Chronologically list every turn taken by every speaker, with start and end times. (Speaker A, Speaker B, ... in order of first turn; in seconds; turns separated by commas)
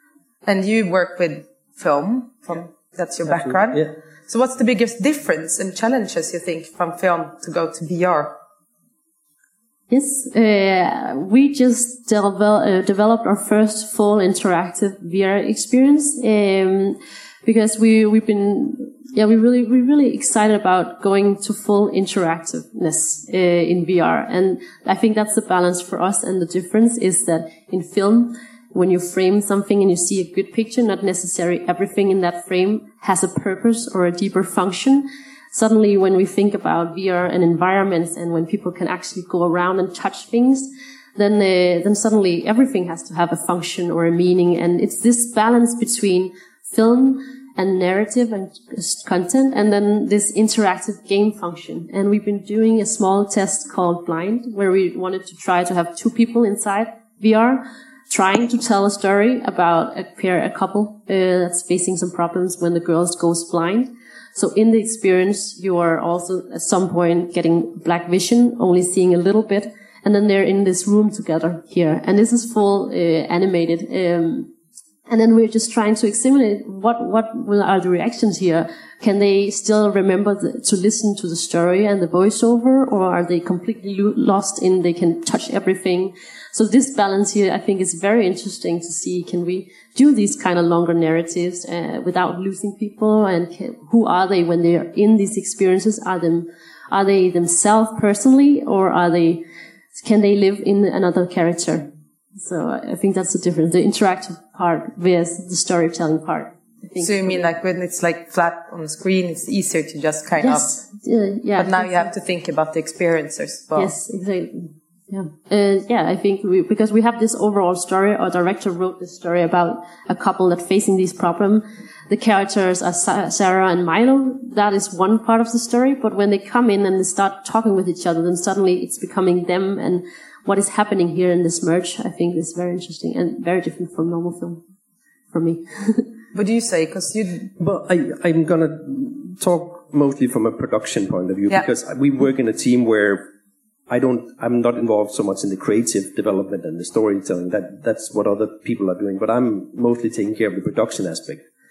Speaker A: 0.5-8.3, Speaker B: 3.3-3.9, Speaker C: 9.9-74.5, Speaker C: 75.1-99.4, Speaker C: 100.0-101.9, Speaker C: 102.4-107.4, Speaker A: 107.0-110.8, Speaker C: 110.4-112.1, Speaker A: 111.6-113.9, Speaker C: 113.7-134.6, Speaker C: 135.3-136.1, Speaker A: 136.3-137.5, Speaker B: 137.6-143.2, Speaker B: 143.9-151.4